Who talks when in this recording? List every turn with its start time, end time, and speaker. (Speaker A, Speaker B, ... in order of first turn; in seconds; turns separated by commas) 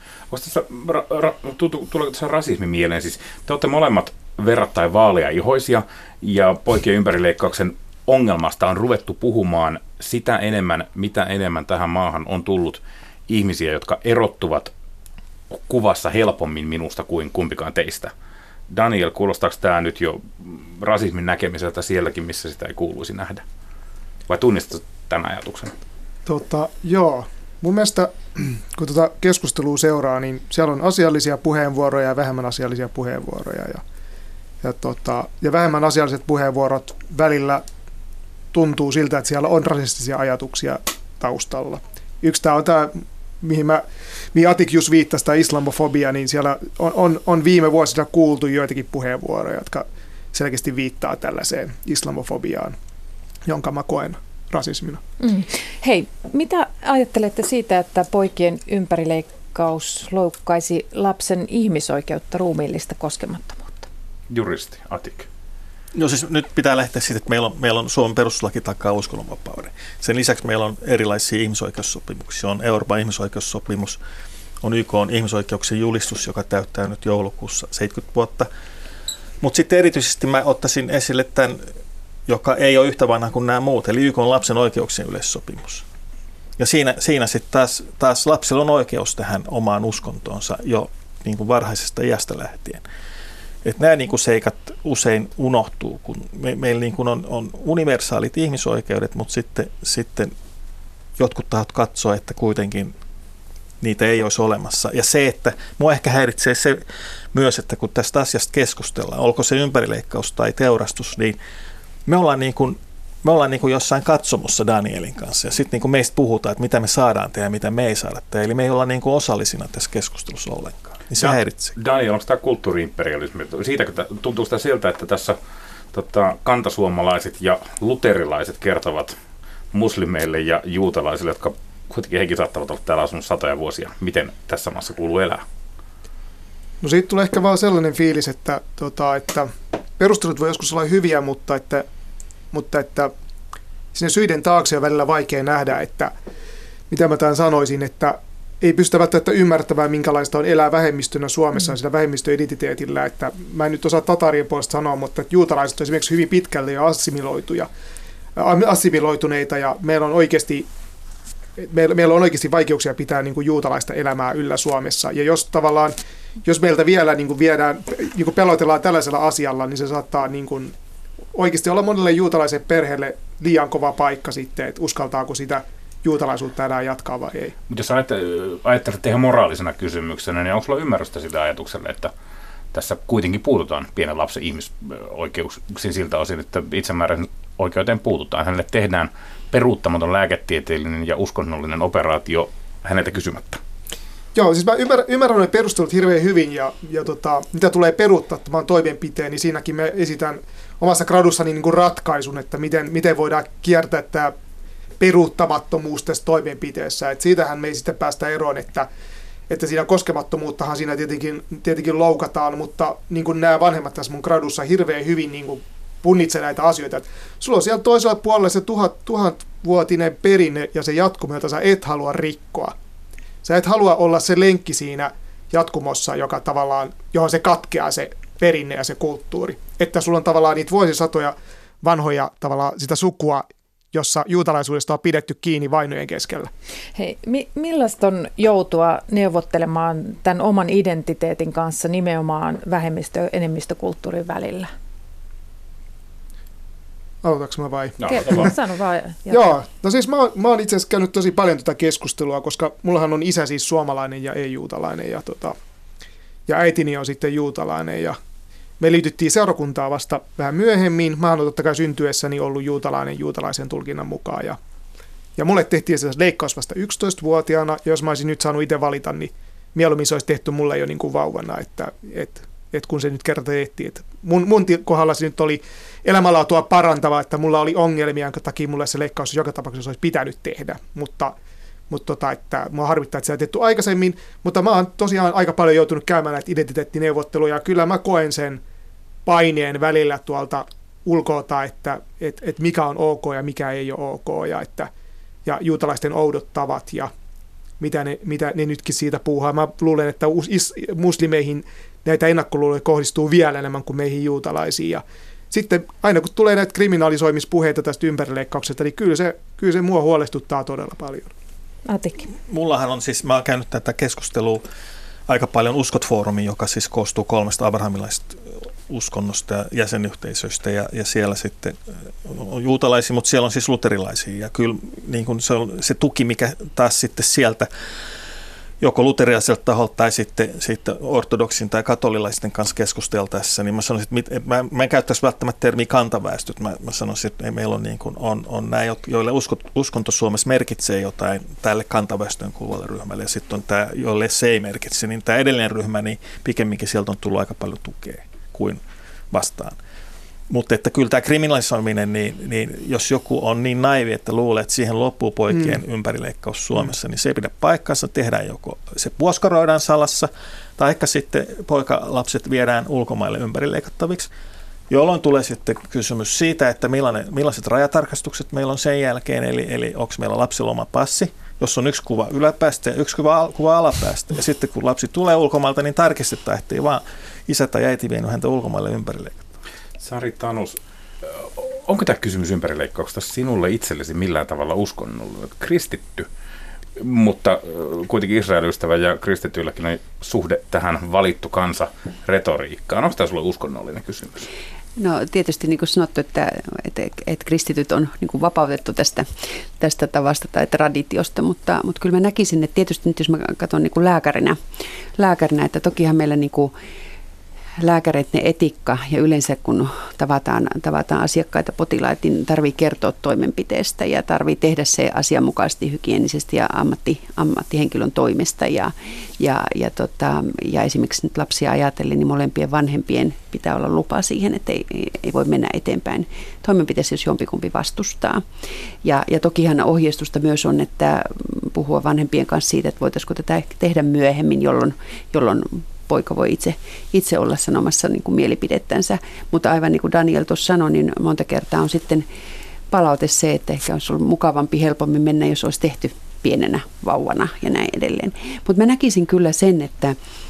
Speaker A: 0.3-14.7, Speaker A: 15.5-18.1, Speaker A: 18.7-23.4, Speaker A: 24.3-25.7, Speaker B: 26.2-33.8, Speaker B: 34.6-37.6, Speaker B: 38.5-43.8, Speaker B: 44.3-52.7, Speaker B: 53.5-55.0, Speaker C: 55.2-63.9, Speaker A: 64.3-65.3, Speaker D: 65.9-74.0, Speaker D: 74.6-78.5, Speaker D: 79.4-81.6, Speaker D: 82.3-85.8, Speaker D: 86.6-92.8, Speaker D: 93.6-100.3, Speaker D: 101.2-102.9, Speaker D: 103.8-111.4, Speaker D: 112.1-121.8, Speaker A: 121.2-125.4, Speaker A: 125.9-129.2, Speaker A: 129.7-135.4, Speaker B: 136.8-141.8, Speaker B: 142.5-143.1, Speaker B: 143.9-146.1, Speaker B: 146.9-157.7, Speaker B: 158.4-160.7, Speaker B: 161.6-170.7, Speaker B: 171.3-177.5, Speaker A: 177.7-182.1, Speaker A: 182.7-193.6, Speaker B: 194.3-204.3, Speaker B: 205.0-208.9, Speaker B: 209.5-222.7, Speaker B: 223.4-236.5, Speaker C: 236.9-244.7, Speaker B: 247.2-248.5, Speaker A: 248.0-248.5, Speaker C: 248.1-249.5, Speaker B: 249.3-255.6, Speaker B: 256.5-258.2, Speaker B: 258.8-264.6, Speaker B: 265.4-281.4, Speaker B: 281.9-288.6, Speaker B: 289.2-294.9, Speaker B: 295.4-297.1, Speaker B: 297.8-311.3, Speaker C: 311.9-312.3, Speaker D: 312.5-314.6, Speaker D: 315.3-327.7, Speaker D: 328.8-349.8, Speaker D: 350.5-364.3, Speaker D: 364.9-379.5, Speaker A: 380.0-386.3, Speaker A: 387.0-394.5, Speaker E: 395.0-404.6, Speaker E: 405.2-406.7, Speaker E: 407.8-428.4, Speaker E: 429.0-442.2, Speaker E: 442.9-450.2